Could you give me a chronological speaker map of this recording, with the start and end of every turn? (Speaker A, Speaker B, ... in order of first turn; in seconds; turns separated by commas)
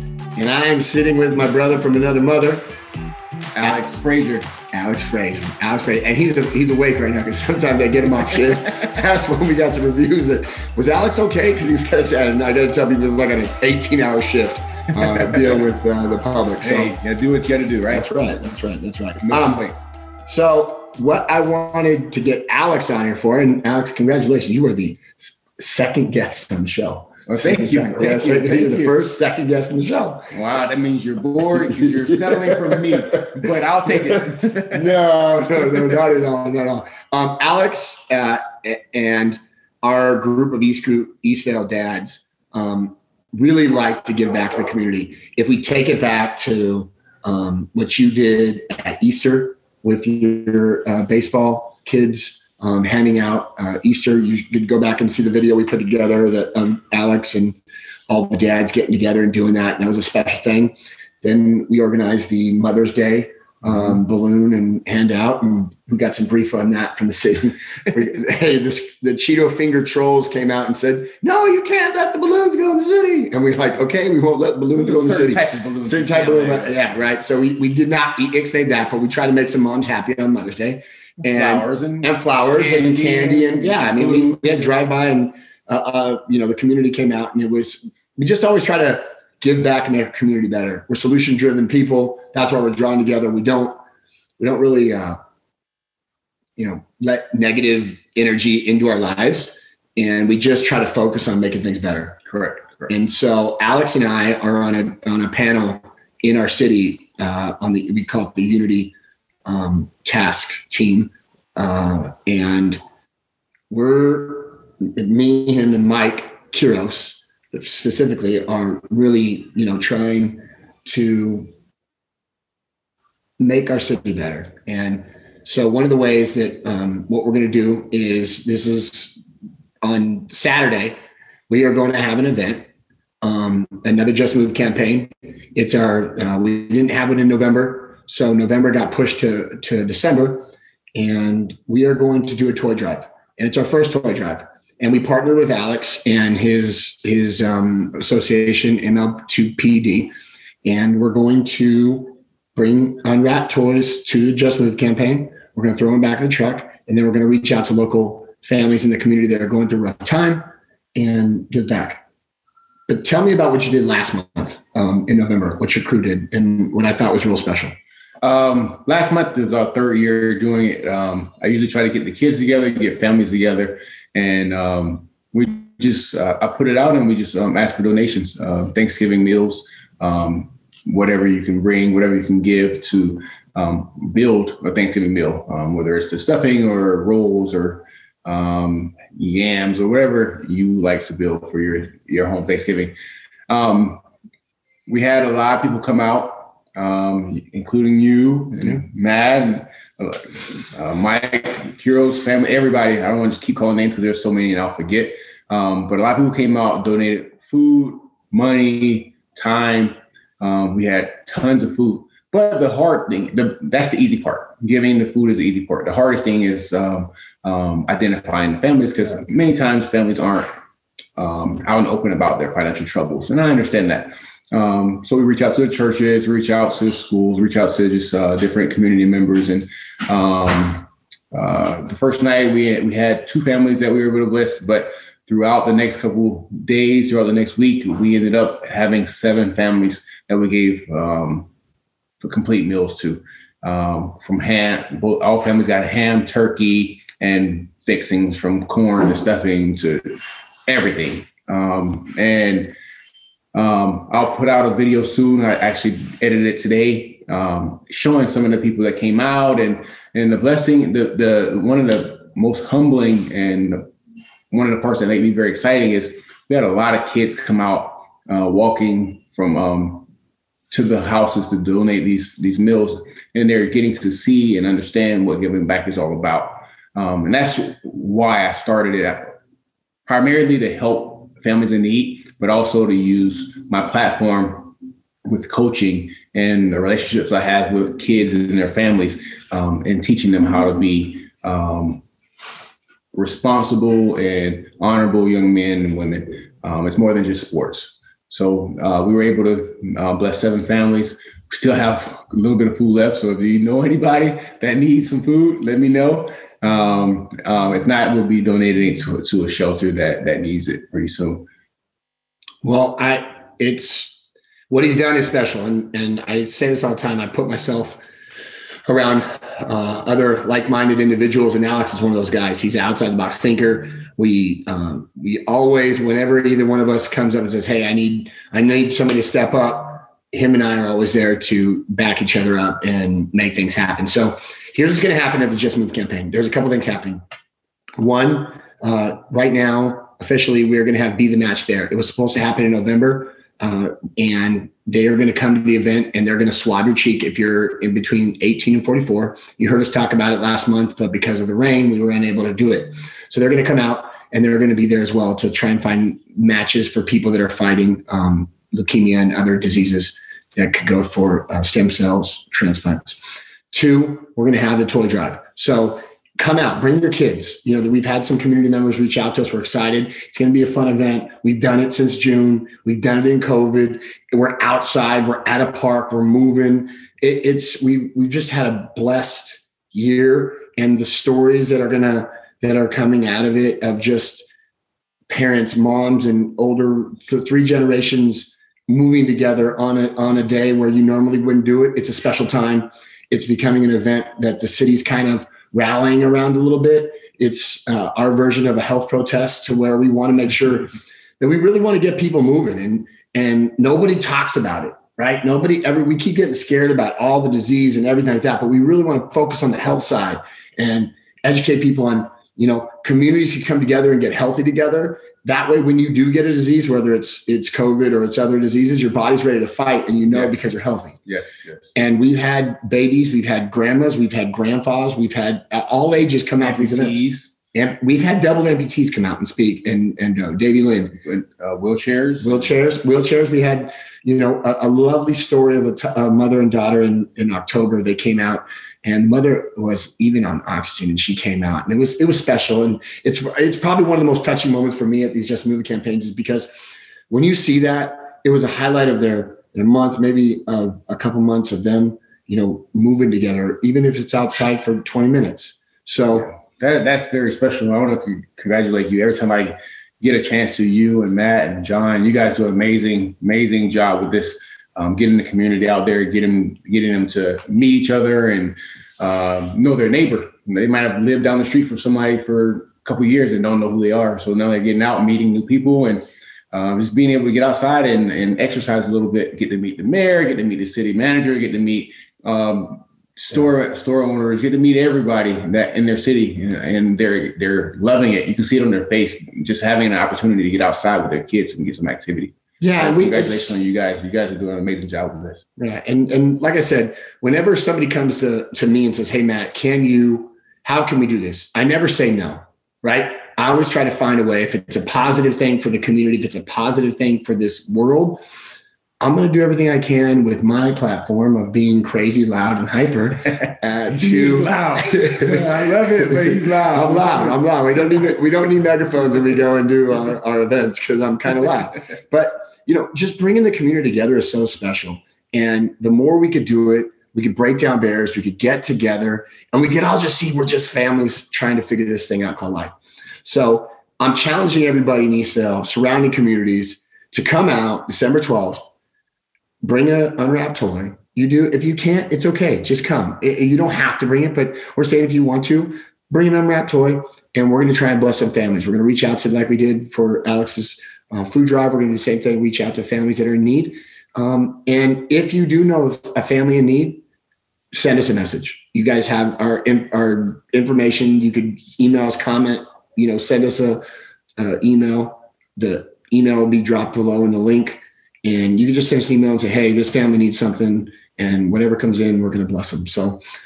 Speaker A: 0.3-2.7, Speaker B: 3.5-4.5, Speaker A: 4.7-16.9, Speaker B: 8.3-8.9, Speaker B: 15.3-15.6, Speaker B: 16.6-18.1, Speaker A: 17.9-19.7, Speaker B: 19.2-19.9, Speaker A: 20.2-30.3, Speaker B: 27.2-29.0, Speaker B: 30.3-34.9, Speaker A: 31.8-32.8, Speaker A: 34.7-93.8, Speaker B: 74.7-77.1, Speaker B: 81.3-84.7, Speaker A: 94.4-95.2, Speaker A: 96.6-102.2, Speaker B: 102.2-102.9, Speaker A: 102.9-108.9, Speaker A: 109.4-112.8, Speaker A: 113.7-121.5, Speaker A: 123.4-129.2, Speaker A: 129.8-130.9, Speaker A: 131.5-132.7, Speaker A: 133.2-150.1, Speaker A: 150.6-162.0, Speaker A: 162.9-167.7, Speaker B: 168.2-192.9, Speaker B: 193.5-194.0, Speaker B: 194.9-220.5, Speaker B: 221.2-241.5, Speaker B: 242.2-252.7, Speaker B: 253.5-263.9, Speaker B: 264.5-270.1, Speaker B: 270.7-279.4, Speaker B: 280.1-292.0, Speaker B: 293.1-311.5, Speaker A: 312.6-318.0, Speaker A: 318.9-337.2, Speaker A: 338.0-363.2, Speaker A: 363.7-384.4, Speaker A: 385.3-421.1, Speaker B: 420.3-420.6, Speaker B: 421.2-421.9, Speaker A: 421.9-427.2, Speaker B: 426.6-427.6, Speaker A: 427.7-431.2, Speaker B: 431.2-432.7, Speaker A: 432.4-446.7, Speaker A: 447.3-456.5, Speaker B: 456.3-495.6, Speaker A: 492.8-493.8, Speaker A: 495.8-508.4, Speaker A: 509.2-538.9, Speaker B: 513.5-518.3, Speaker A: 539.8-557.2, Speaker A: 557.9-564.0, Speaker A: 564.6-573.4